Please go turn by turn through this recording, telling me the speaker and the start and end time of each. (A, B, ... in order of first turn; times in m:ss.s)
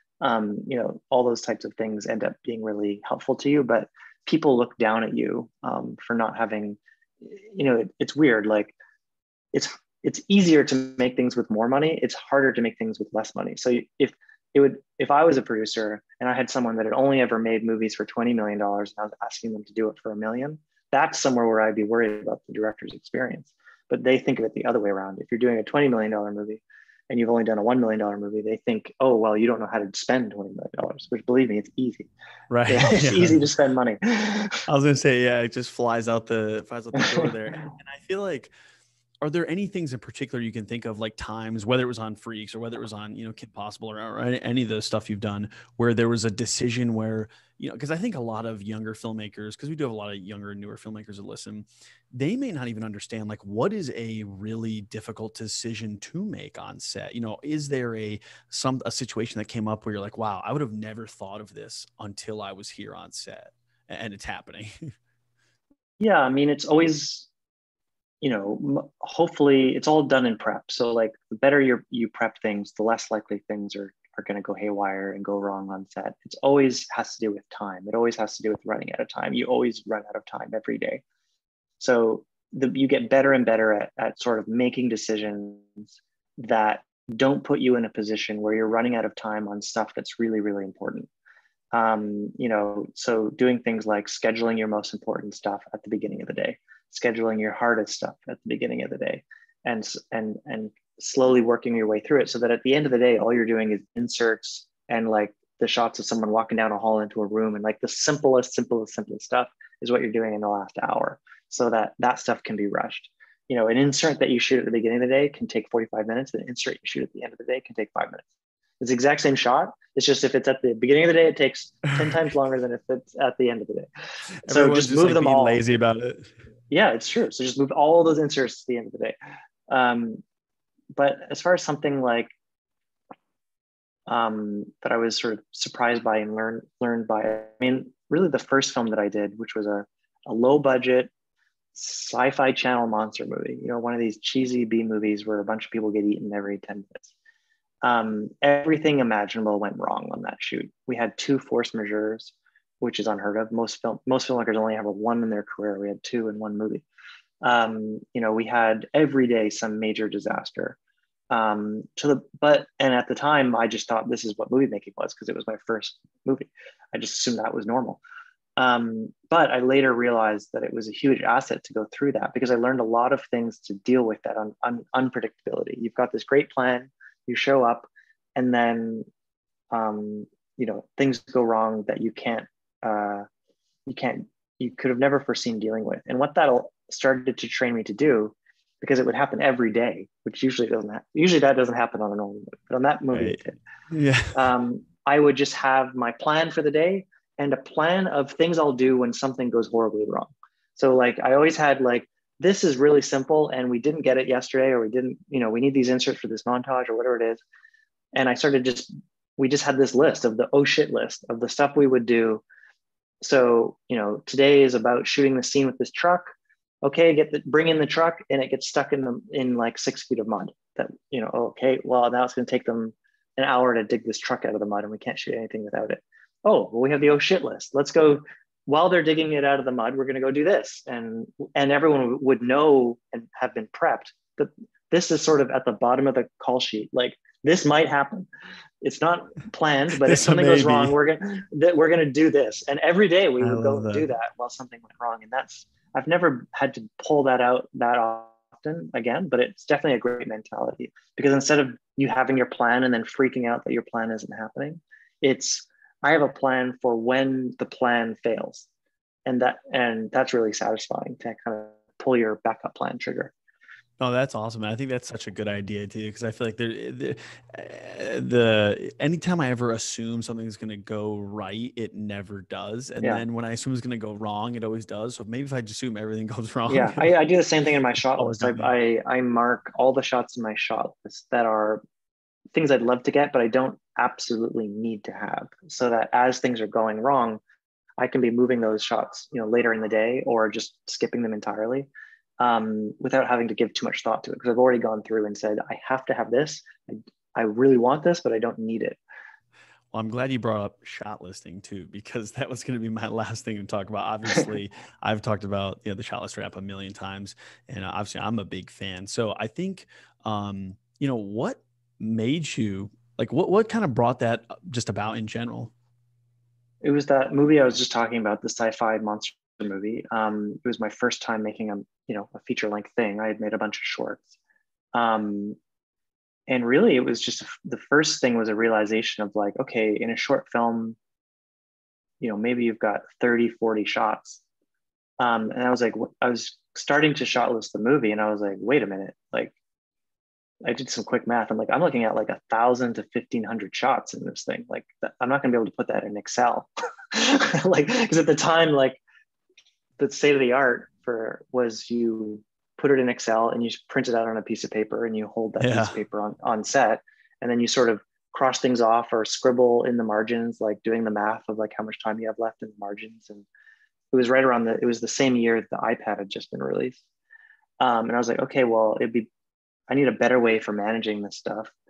0:00.2-0:08.7 A
0:09.5-0:32.1 A
0:32.5-0:33.4 B
0:32.7-0:34.6 A
0:34.7-0:38.5 B
0:37.0-0:37.3 A
0:39.2-1:04.9 B
1:06.0-1:07.3 A
1:08.2-1:21.0 A
1:21.8-1:31.1 A
1:31.7-1:58.2 A
1:58.8-2:03.9 A
2:04.4-2:06.3 B
2:04.5-2:05.7 A
2:06.7-2:09.2 A
2:09.7-2:10.2 A
2:10.9-2:12.3 A
2:14.1-2:21.1 A
2:21.7-2:27.1 A
2:27.8-2:36.8 A
2:37.4-2:40.8 A
2:41.3-2:48.0 A
2:48.6-2:59.1 A
2:59.7-3:03.2 A
3:03.9-3:13.6 A
3:13.1-3:14.4 B
3:14.3-3:27.4 A
3:28.1-3:32.4 A
3:33.2-3:36.3 A
3:36.8-3:58.3 A
3:58.8-4:18.7 A
3:59.9-4:00.9 B
4:03.4-4:04.1 B
4:19.2-4:23.3 A
4:24.0-4:37.1 B
4:36.7-4:41.8 A
4:38.2-4:38.7 B
4:42.5-4:47.4 A
4:48.0-4:51.9 A
4:52.4-4:59.0 A
4:59.9-5:15.7 B
5:16.8-5:24.3 A
5:24.9-5:25.6 A
5:26.5-5:31.0 A
5:32.2-5:34.4 A
5:35.2-5:39.5 A
5:40.6-5:49.0 A
5:50.0-6:03.4 A
5:55.6-5:55.9 B
6:04.1-6:07.0 A
6:07.8-6:09.3 A
6:09.9-6:11.7 A